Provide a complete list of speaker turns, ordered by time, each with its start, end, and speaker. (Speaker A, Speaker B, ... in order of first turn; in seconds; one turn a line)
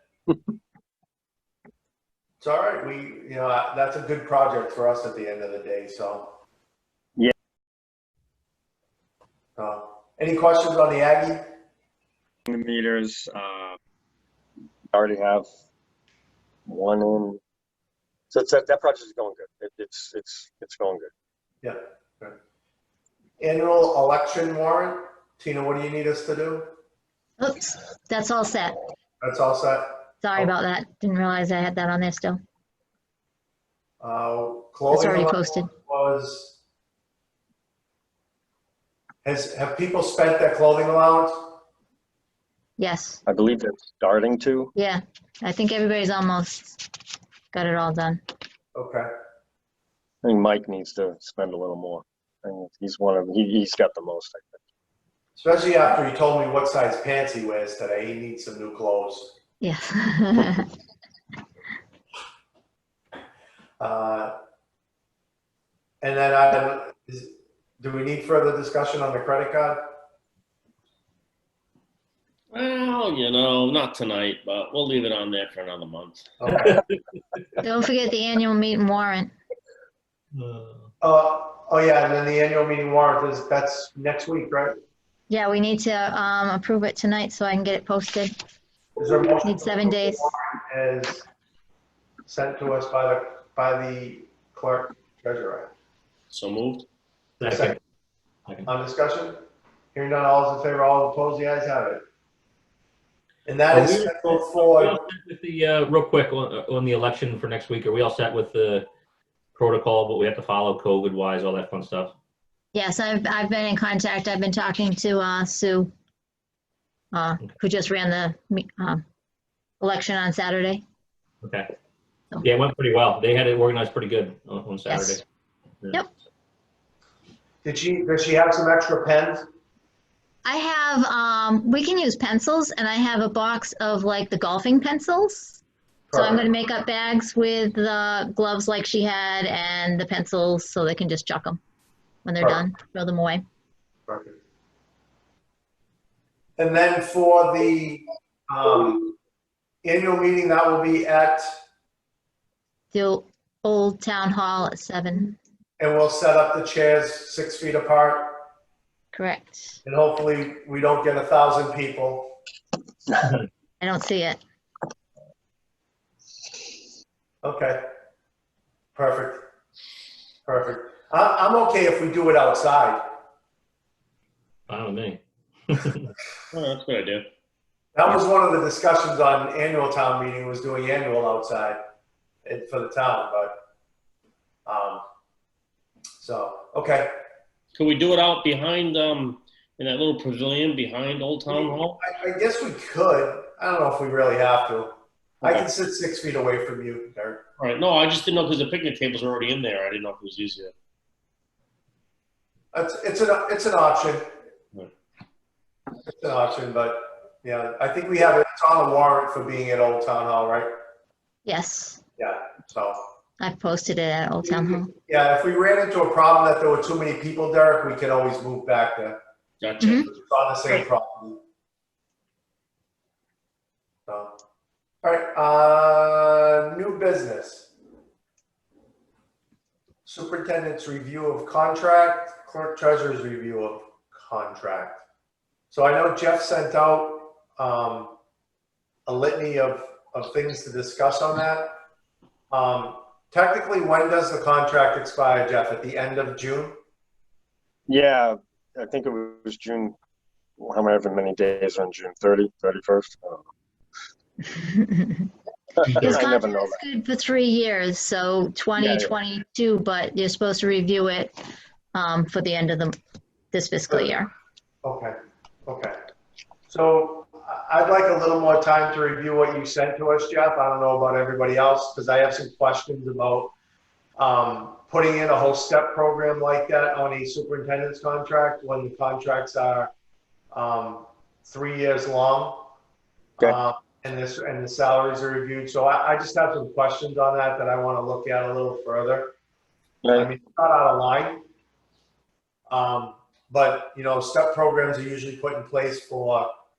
Speaker A: 2.4-6.3
Speaker A: 9.6-11.4
Speaker B: 12.5-13.8
Speaker B: 14.9-15.5
Speaker B: 16.6-17.4
Speaker B: 18.3-21.1
Speaker A: 21.6-22.4
Speaker A: 23.4-26.7
Speaker C: 27.4-28.8
Speaker A: 29.2-30.5
Speaker C: 30.2-32.4
Speaker A: 34.0-36.6
Speaker C: 34.9-35.7
Speaker A: 39.2-41.5
Speaker C: 42.8-43.2
Speaker B: 43.2-44.7
Speaker C: 44.7-46.8
Speaker C: 47.5-48.2
Speaker A: 48.7-49.1
Speaker B: 50.2-54.6
Speaker A: 55.4-59.3
Speaker C: 59.6-60.7
Speaker A: 63.8-64.3
Speaker A: 66.0-69.8
Speaker D: 72.5-76.7
Speaker A: 76.4-76.8
Speaker C: 77.6-79.3
Speaker E: 80.3-80.9
Speaker A: 81.0-84.7
Speaker C: 85.3-88.3
Speaker A: 89.0-91.3
Speaker C: 89.4-90.3
Speaker A: 92.2-95.7
Speaker D: 96.3-96.8
Speaker E: 97.4-97.8
Speaker A: 97.4-97.8
Speaker A: 98.6-99.4
Speaker A: 99.9-102.0
Speaker A: 103.5-105.0
Speaker E: 103.7-108.9
Speaker E: 109.5-112.1
Speaker C: 112.7-115.9
Speaker C: 117.1-119.0
Speaker C: 119.8-120.8
Speaker E: 121.4-121.7
Speaker E: 122.4-125.2
Speaker C: 124.9-125.2
Speaker A: 127.6-129.4
Speaker C: 130.4-135.6
Speaker A: 136.1-136.5
Speaker C: 136.1-141.6
Speaker C: 142.2-143.4
Speaker A: 144.1-144.3
Speaker A: 146.6-149.1
Speaker A: 149.8-151.5
Speaker C: 152.9-155.4
Speaker A: 155.8-158.4
Speaker C: 159.1-159.8
Speaker A: 159.8-162.3
Speaker C: 163.8-164.4
Speaker A: 167.4-167.8
Speaker A: 168.9-169.4
Speaker A: 170.4-173.0
Speaker E: 174.7-176.1
Speaker D: 176.5-177.2
Speaker A: 177.9-181.8
Speaker A: 182.4-183.6
Speaker A: 184.7-185.0
Speaker A: 186.2-187.1
Speaker D: 187.7-192.0
Speaker A: 191.5-194.9
Speaker A: 195.4-197.4
Speaker D: 197.6-200.7
Speaker A: 202.7-204.3
Speaker A: 206.0-210.7
Speaker C: 211.4-212.0
Speaker A: 212.2-213.0
Speaker C: 213.4-214.9
Speaker A: 214.4-219.2
Speaker D: 219.6-220.1
Speaker C: 219.8-220.1
Speaker A: 220.1-221.4
Speaker A: 224.1-224.3
Speaker A: 225.0-227.7
Speaker A: 230.0-235.0
Speaker A: 235.7-238.1
Speaker A: 239.1-241.7
Speaker A: 242.5-246.8
Speaker B: 247.9-249.9
Speaker B: 250.6-253.4
Speaker C: 254.4-255.3
Speaker C: 255.9-261.3
Speaker B: 256.0-256.8
Speaker B: 258.8-259.1
Speaker C: 261.9-262.9
Speaker C: 263.5-264.3
Speaker A: 264.8-265.1
Speaker A: 265.6-265.9
Speaker A: 266.7-273.5
Speaker A: 274.2-279.9
Speaker A: 280.5-282.7
Speaker A: 283.4-289.3
Speaker B: 290.0-290.3
Speaker A: 290.1-291.4
Speaker A: 292.7-296.5